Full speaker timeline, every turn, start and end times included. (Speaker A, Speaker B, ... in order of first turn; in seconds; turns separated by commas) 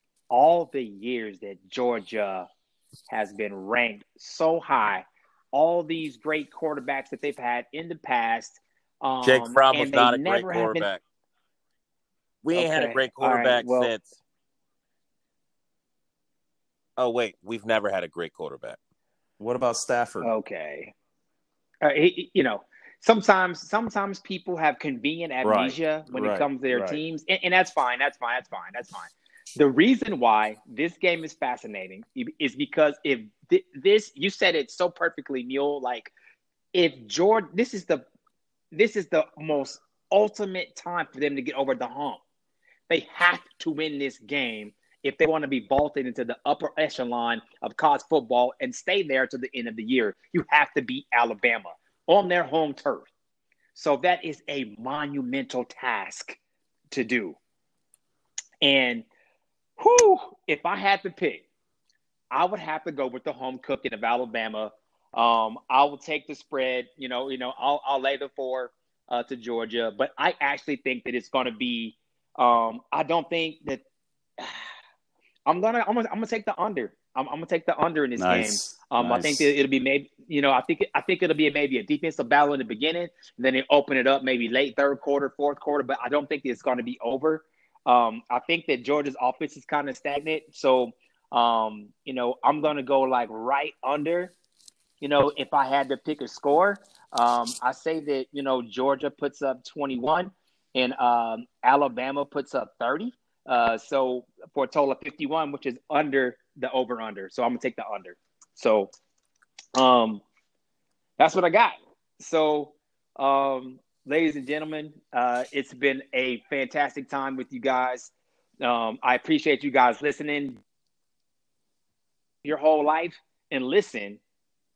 Speaker A: 0.3-2.5, Speaker A: 3.1-10.9, Speaker B: 9.2-11.0, Speaker B: 12.4-14.2, Speaker A: 12.5-13.9, Speaker B: 17.0-18.8, Speaker C: 19.4-20.3, Speaker A: 20.2-20.9, Speaker A: 21.8-36.1, Speaker C: 25.4-27.0, Speaker A: 36.7-38.0, Speaker A: 38.7-42.2, Speaker A: 42.9-53.1, Speaker A: 53.7-56.4, Speaker A: 56.9-57.4, Speaker A: 58.6-59.0, Speaker A: 59.8-61.5, Speaker A: 62.3-73.8, Speaker A: 74.4-74.7, Speaker A: 75.5-94.3, Speaker C: 78.2-79.5, Speaker A: 95.0-108.9, Speaker A: 109.8-110.2, Speaker A: 111.2-118.1, Speaker A: 118.6-120.6, Speaker A: 122.4-124.2